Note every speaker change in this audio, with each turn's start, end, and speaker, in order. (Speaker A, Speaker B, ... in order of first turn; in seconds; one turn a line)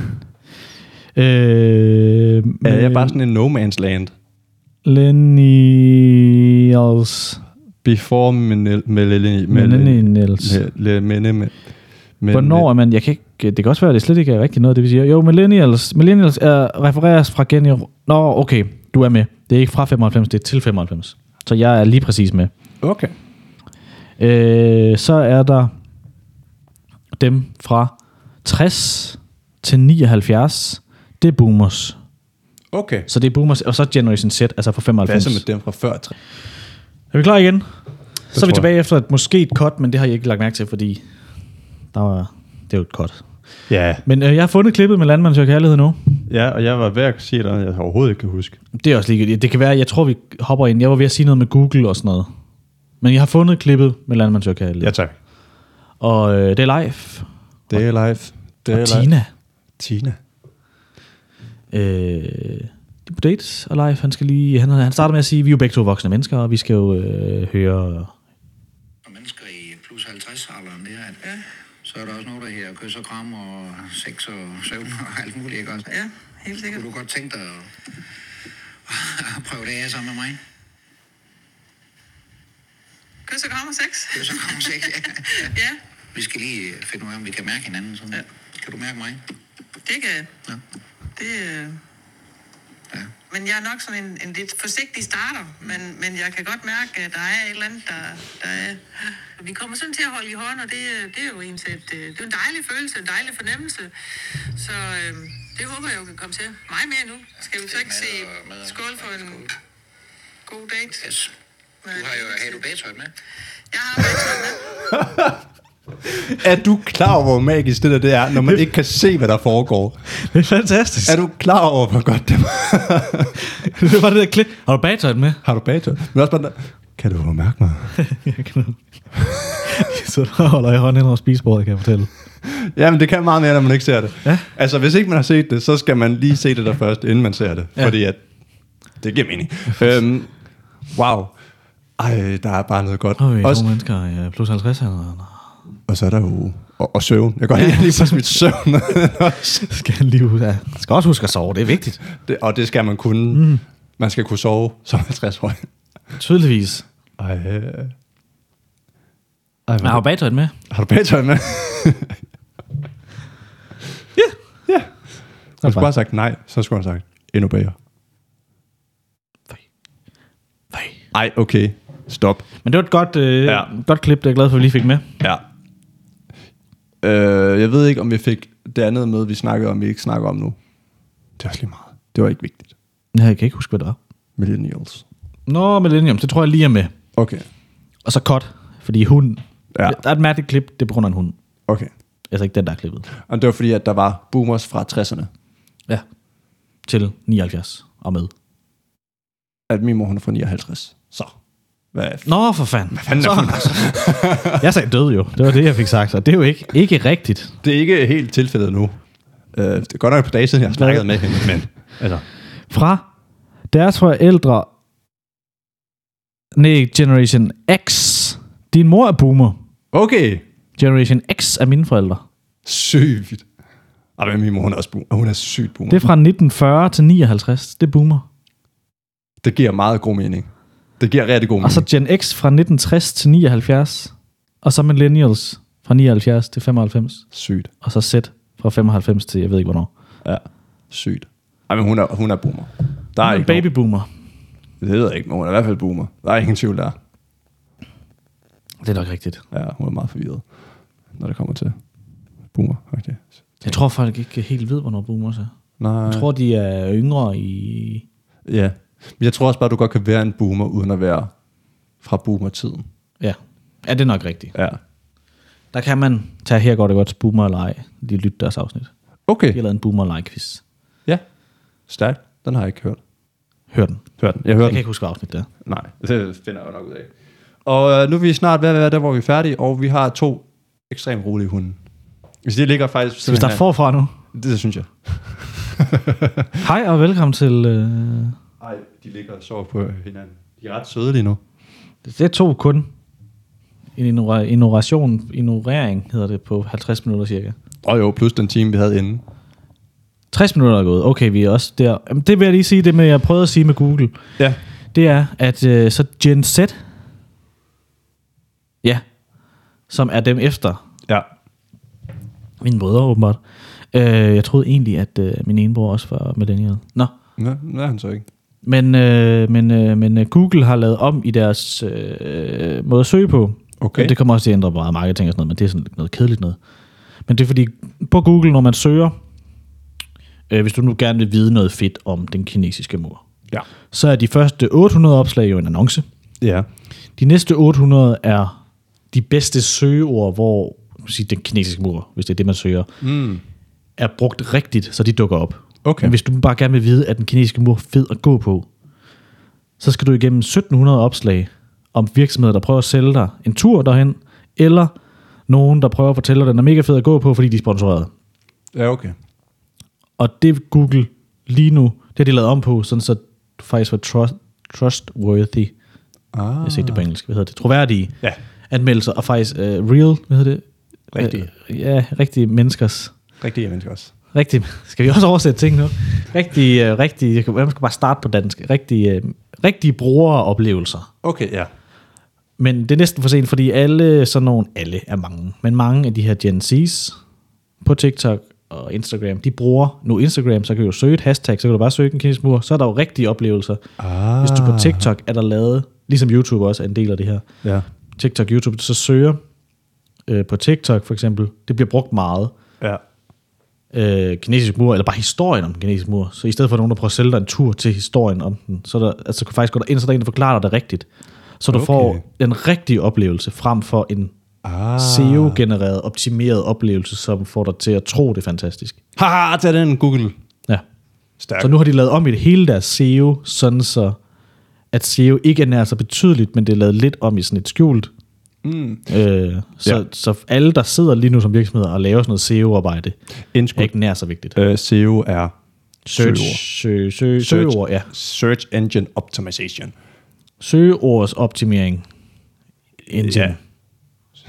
Speaker A: 1.1-3.2
Speaker B: 2.6-4.1
Speaker A: 4.8-7.4
Speaker B: 7.8-11.6
Speaker A: 9.5-10.6
Speaker B: 12.2-12.7
Speaker A: 12.3-22.5
Speaker B: 22.8-23.1
Speaker A: 24.2-25.7
Speaker A: 27.2-32.0
Speaker B: 32.7-33.1
Speaker A: 33.1-35.4
Speaker B: 35.0-36.1
Speaker A: 37.1-37.7
Speaker A: 38.3-41.0
Speaker B: 38.3-38.7
Speaker A: 41.9-43.3
Speaker B: 43.7-44.0
Speaker A: 44.0-46.2
Speaker B: 46.3-48.6
Speaker A: 48.8-52.3
Speaker A: 53.0-55.0
Speaker B: 54.8-55.1
Speaker A: 56.0-57.3
Speaker B: 57.7-59.1
Speaker A: 58.7-59.3
Speaker B: 59.8-60.2
Speaker A: 61.7-68.1
Speaker C: 69.0-71.3
Speaker C: 71.8-75.9
Speaker D: 75.9-76.8
Speaker C: 76.6-77.7
Speaker C: 78.9-80.4
Speaker D: 83.3-85.8
Speaker C: 84.2-85.5
Speaker C: 86.1-89.2
Speaker D: 89.8-90.3
Speaker D: 91.2-91.8
Speaker D: 93.3-109.5
Speaker C: 107.5-109.5
Speaker D: 110.5-111.1
Speaker C: 111.0-111.3
Speaker D: 111.8-112.6
Speaker C: 111.9-113.1
Speaker D: 113.7-114.6
Speaker B: 114.9-115.4
Speaker B: 116.0-120.0
Speaker A: 120.1-121.2
Speaker B: 121.0-123.4
Speaker A: 123.4-125.4
Speaker B: 125.4-128.0
Speaker A: 128.0-128.8
Speaker A: 129.4-132.1
Speaker B: 132.4-138.2
Speaker B: 139.0-140.3
Speaker B: 140.9-141.3
Speaker B: 142.0-143.7
Speaker A: 143.2-145.5
Speaker B: 145.9-149.5
Speaker A: 147.5-148.2
Speaker A: 149.2-152.0
Speaker B: 152.1-155.6
Speaker A: 153.3-153.6
Speaker A: 156.2-156.8
Speaker B: 157.2-157.9
Speaker B: 159.7-160.0
Speaker A: 159.8-160.5
Speaker B: 160.7-162.2
Speaker A: 165.6-165.9
Speaker B: 165.6-167.8
Speaker A: 170.7-171.0
Speaker B: 171.1-172.5
Speaker A: 172.6-175.1
Speaker B: 177.0-180.6
Speaker B: 181.4-182.7
Speaker A: 183.1-184.0
Speaker B: 184.4-185.0
Speaker A: 185.5-186.9
Speaker B: 187.2-187.5
Speaker A: 188.1-191.4
Speaker B: 189.7-190.0
Speaker A: 192.3-193.1
Speaker B: 193.2-195.3
Speaker A: 196.9-198.3
Speaker B: 199.7-201.3
Speaker B: 201.9-202.3
Speaker A: 202.2-207.6
Speaker B: 202.9-204.7
Speaker B: 207.6-209.0
Speaker B: 209.5-212.2
Speaker A: 210.8-211.5
Speaker A: 212.7-213.1
Speaker A: 213.7-214.7
Speaker A: 216.6-219.6
Speaker B: 219.9-220.4
Speaker A: 220.8-222.2
Speaker B: 222.7-223.4
Speaker B: 224.2-226.0
Speaker A: 225.9-228.2
Speaker B: 229.4-231.9
Speaker A: 231.6-237.3
Speaker B: 237.3-237.7
Speaker A: 237.8-239.9
Speaker B: 240.2-243.7
Speaker A: 243.2-244.1
Speaker B: 244.8-247.0
Speaker A: 248.8-249.4
Speaker B: 249.5-250.4
Speaker B: 251.2-251.8
Speaker B: 252.5-253.8
Speaker A: 253.6-255.5
Speaker B: 255.8-256.3
Speaker A: 256.1-258.1
Speaker B: 258.4-261.3
Speaker B: 262.0-262.9
Speaker A: 263.2-264.6
Speaker A: 265.7-268.9
Speaker B: 269.3-269.6
Speaker A: 269.5-270.6
Speaker B: 271.9-273.0
Speaker A: 273.7-274.1
Speaker B: 274.2-274.8
Speaker A: 274.6-275.5
Speaker B: 275.6-277.1
Speaker B: 277.6-281.8
Speaker B: 282.4-283.6
Speaker A: 283.2-284.1
Speaker B: 284.3-286.6
Speaker A: 286.6-288.4
Speaker B: 288.6-291.4
Speaker A: 292.0-292.9
Speaker A: 294.0-297.6
Speaker B: 297.8-299.2
Speaker A: 300.3-304.2
Speaker A: 304.9-306.8
Speaker A: 309.9-310.8
Speaker A: 312.6-313.4
Speaker A: 313.9-317.1
Speaker B: 317.4-318.3
Speaker A: 318.6-326.6
Speaker B: 323.8-324.2
Speaker A: 327.3-329.1
Speaker A: 330.5-333.2
Speaker A: 333.9-336.1
Speaker B: 336.4-336.7
Speaker A: 337.2-338.6
Speaker A: 339.1-342.9
Speaker B: 343.0-343.4
Speaker A: 344.0-348.7
Speaker B: 345.9-346.2
Speaker A: 349.8-354.9
Speaker A: 355.5-358.1
Speaker B: 358.7-359.1
Speaker A: 360.2-365.7
Speaker B: 366.3-367.1
Speaker A: 366.6-368.2
Speaker A: 368.7-373.1
Speaker B: 371.1-371.5
Speaker B: 373.4-374.1
Speaker A: 374.3-381.1
Speaker B: 381.2-381.7
Speaker A: 382.6-387.2
Speaker A: 387.8-393.8
Speaker B: 394.0-395.1
Speaker A: 394.4-397.4
Speaker A: 398.2-399.4
Speaker A: 400.3-402.5
Speaker A: 403.9-411.1
Speaker A: 411.6-414.3
Speaker B: 411.7-412.2
Speaker B: 414.6-415.6
Speaker A: 415.0-419.0
Speaker B: 419.2-420.4
Speaker B: 421.4-421.8
Speaker A: 421.6-424.2
Speaker A: 424.9-428.1
Speaker B: 428.6-429.1
Speaker A: 429.1-433.2
Speaker B: 433.5-433.9
Speaker A: 433.8-434.6
Speaker B: 434.6-435.5
Speaker A: 436.1-438.1
Speaker B: 436.1-436.6
Speaker B: 437.4-439.9
Speaker A: 440.6-442.1
Speaker A: 443.1-443.6
Speaker B: 443.2-443.6